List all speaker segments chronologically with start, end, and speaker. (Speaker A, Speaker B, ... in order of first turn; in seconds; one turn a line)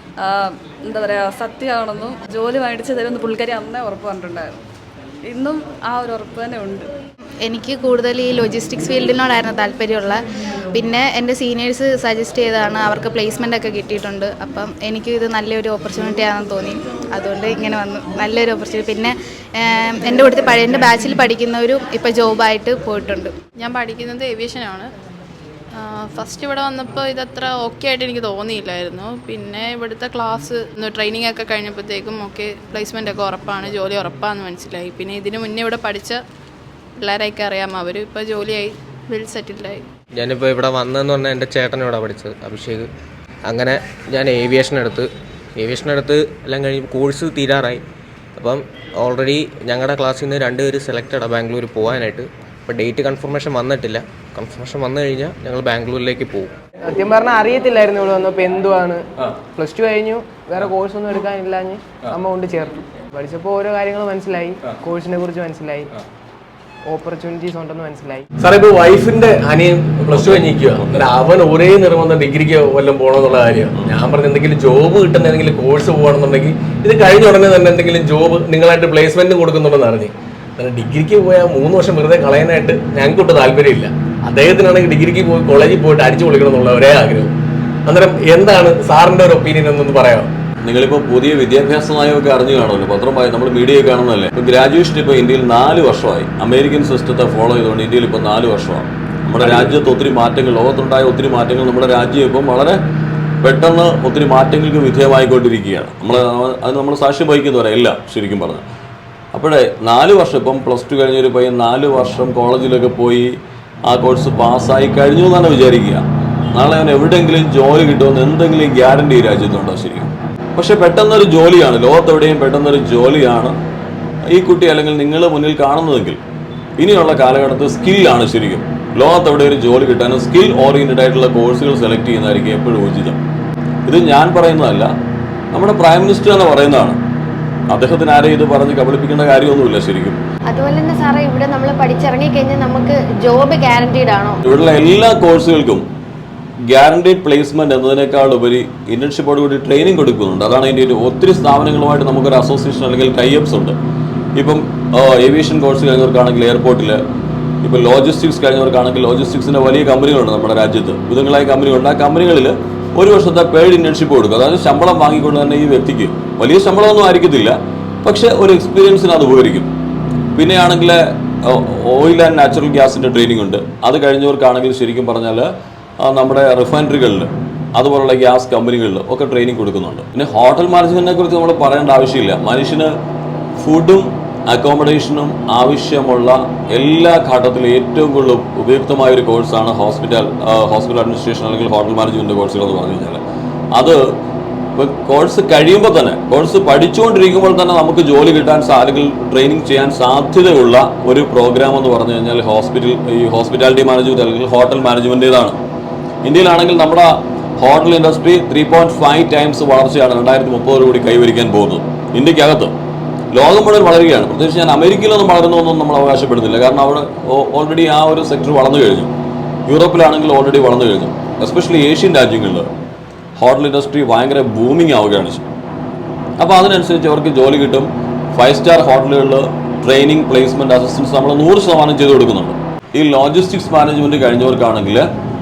Speaker A: 0.2-4.5
Speaker A: 5.3-6.9
Speaker B: 7.4-10.2
Speaker B: 10.7-23.3
Speaker C: 23.6-24.9
Speaker C: 25.8-36.2
Speaker C: 37.0-39.8
Speaker D: 40.2-42.9
Speaker D: 43.5-47.8
Speaker D: 48.4-56.5
Speaker E: 56.9-65.9
Speaker E: 66.9-68.2
Speaker F: 68.4-87.3
Speaker G: 70.2-70.9
Speaker F: 87.9-90.3
Speaker G: 90.7-102.8
Speaker F: 99.4-99.7
Speaker G: 103.4-108.6
Speaker G: 109.3-113.3
Speaker G: 113.9-116.0
Speaker G: 116.5-123.5
Speaker G: 124.3-126.2
Speaker G: 126.8-133.2
Speaker G: 133.9-134.9
Speaker G: 135.5-137.0
Speaker G: 137.7-140.2
Speaker H: 140.5-144.4
Speaker G: 144.4-145.8
Speaker G: 146.7-153.8
Speaker G: 154.4-157.0
Speaker G: 157.6-169.7
Speaker G: 170.4-175.5
Speaker G: 176.0-182.9
Speaker G: 183.6-193.2
Speaker G: 193.8-194.0
Speaker G: 194.8-205.6
Speaker G: 206.2-212.7
Speaker G: 213.3-219.1
Speaker G: 219.7-222.7
Speaker G: 223.4-225.4
Speaker G: 226.4-235.1